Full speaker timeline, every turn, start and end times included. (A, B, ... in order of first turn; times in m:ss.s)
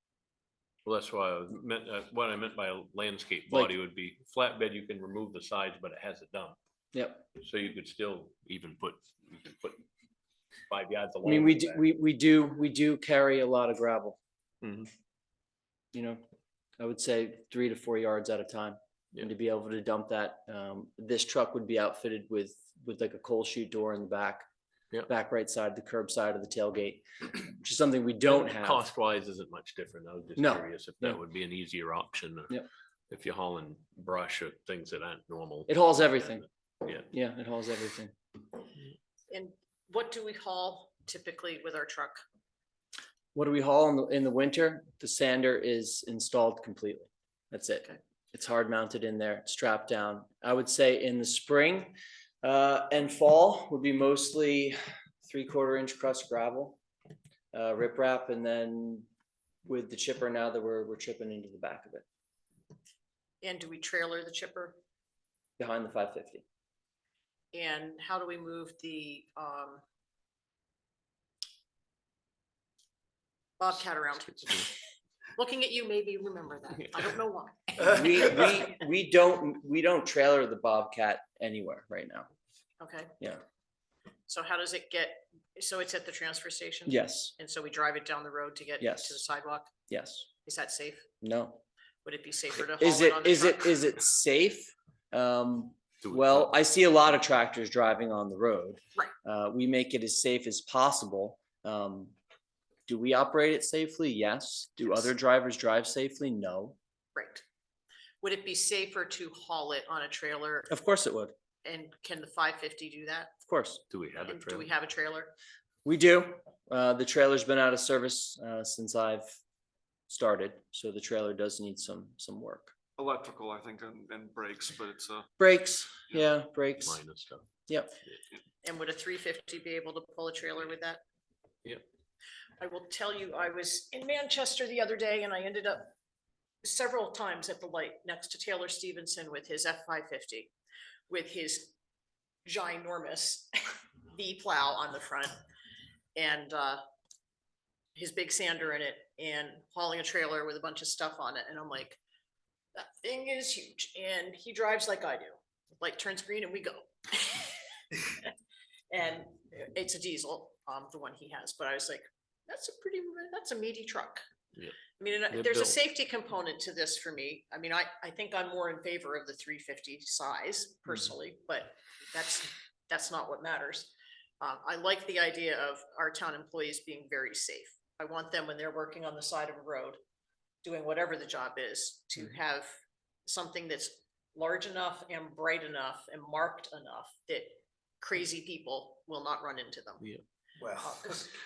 0:00.8-0:06.6 A
0:06.9-0:07.2 B
0:07.4-0:09.8 A
0:10.7-0:11.8 A
0:11.2-0:14.2 B
0:14.6-0:14.9 A
0:15.9-0:16.2 B
0:16.8-0:24.4 B
0:25.1-0:28.8 B
0:28.3-0:35.7 A
0:30.4-0:31.2 B
0:35.7-0:36.5 B
0:37.0-0:38.1 B
0:39.3-0:42.2 C
0:43.3-0:56.8 B
0:57.5-0:59.1 B
0:59.6-1:02.0 B
1:03.4-1:04.8 C
1:05.6-1:06.4 B
1:07.5-1:09.8 C
1:13.6-1:14.7 C
1:15.4-1:18.5 C
1:17.8-1:22.3 B
1:22.8-1:23.1 C
1:24.3-1:29.7 C
1:26.9-1:27.3 B
1:28.8-1:29.2 B
1:29.9-1:30.3 B
1:30.4-1:31.1 C
1:31.2-1:31.6 B
1:32.0-1:33.7 C
1:32.8-1:42.1 B
1:36.0-1:36.5 A
1:42.9-1:46.8 B
1:47.2-1:47.4 C
1:48.2-1:50.7 C
1:50.7-1:51.3 B
1:51.6-1:53.3 C
1:53.5-1:53.8 B
1:53.9-1:54.7 A
1:54.3-1:55.3 C
1:55.8-1:59.4 B
2:00.1-2:02.7 B
2:03.0-2:05.3 D
2:05.4-2:07.0 B
2:06.8-2:07.5 A
2:07.7-2:08.0 B
2:08.6-2:11.0 C
2:12.6-2:15.9 C
2:16.6-2:20.5 C
2:21.1-2:21.7 C
2:22.4-2:25.4 C
2:26.2-2:26.8 C
2:28.0-2:32.0 C
2:32.8-2:38.3 C
2:38.9-2:44.2 C
2:45.0-3:00.0 C
2:45.3-2:45.8 A
3:00.6-3:02.7 C
3:03.3-3:10.0 C
3:10.7-3:11.3 C